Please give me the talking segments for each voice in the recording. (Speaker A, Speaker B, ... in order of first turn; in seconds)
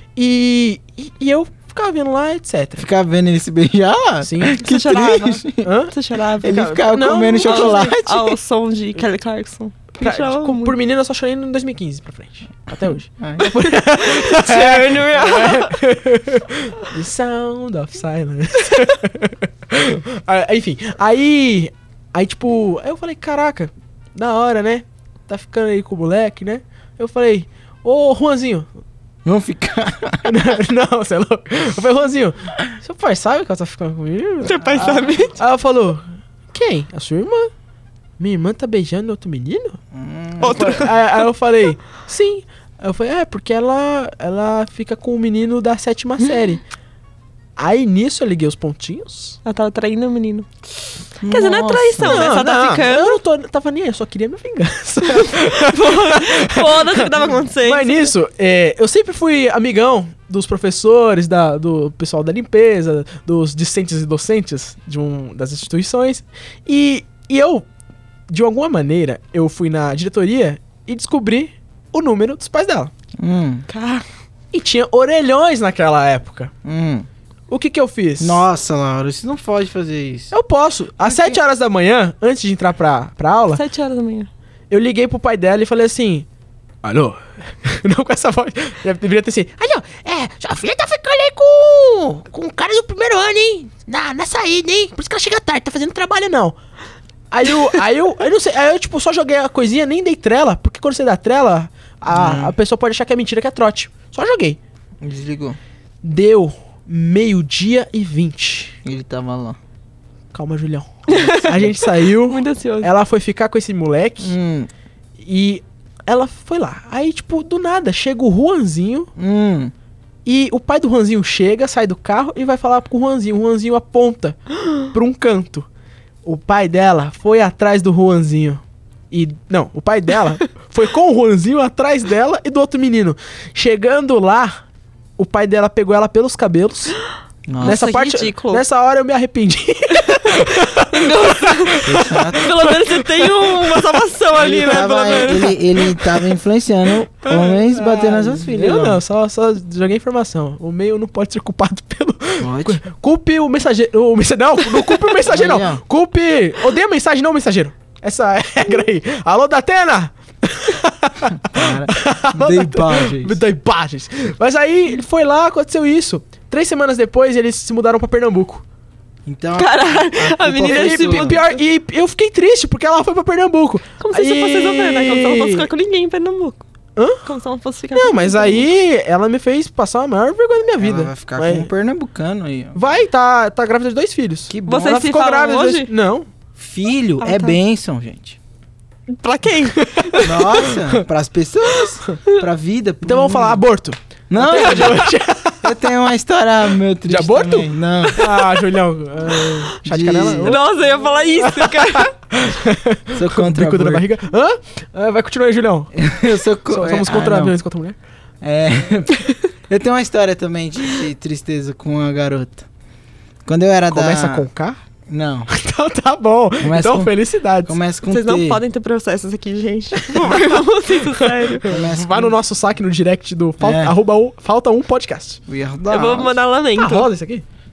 Speaker A: 0.1-2.9, 4.2-4.7, 5.6-5.9, 6.5-7.9, 10.0-28.7, 30.2-37.5, 38.2-39.8, 40.4-46.6, 47.6-49.4, 52.0-67.7, 68.3-72.9, 74.5-76.5, 77.5-78.4, 80.3-83.6, 84.7-86.2, 86.8-96.6, 97.3-104.6, 106.0-108.8, 110.3-114.3, 115.2-119.1, 120.2-125.7, 126.2-134.6, 135.2-137.0, 137.6-143.7, 147.3-168.6, 170.6-175.7, 176.9-177.3, 177.9-181.7, 182.7-186.3, 189.7-191.0, 193.0-195.7, 197.1-200.6, 201.4-206.1, 206.7-207.9, 213.9-214.8, 215.5-217.8, 220.0-225.4, 226.8-227.4
Speaker B: 2.8-5.7, 6.4-8.4, 13.2-13.6, 29.2-30.3, 39.9-40.9, 51.2-52.3, 73.2-73.6, 76.6-77.1, 78.2-80.3, 81.0-81.4, 102.1-102.5, 105.0-105.6, 108.8-109.6, 114.2-114.7, 119.2-119.7, 137.5-137.8, 141.8-142.5, 144.3-149.0, 152.4-152.8, 155.2-155.8, 161.4-163.4, 169.2-171.4, 180.8-182.8, 184.5-185.1, 186.6-188.4, 190.2-193.6, 194.3-198.3, 199.8-200.6, 203.1-204.1, 205.9-207.6, 208.4-212.7, 213.4-214.5, 215.1-215.5, 216.6-217.1, 217.6-218.6, 221.7-222.3, 223.6-223.9, 225.5-226.4
Speaker C: 4.5-6.8, 7.4-10.8, 14.0-15.8, 34.4-35.4, 40.4-41.0, 49.4-50.5, 51.3-53.2, 55.1-58.1, 73.7-74.0, 83.5-84.3, 111.1-112.9, 137.6-138.6, 140.9-146.0, 169.6-171.6, 174.0-176.6, 177.2-178.7, 184.7-185.9, 187.2-187.6, 189.1-190.4, 200.4-202.1, 218.1-221.7, 225.9-227.1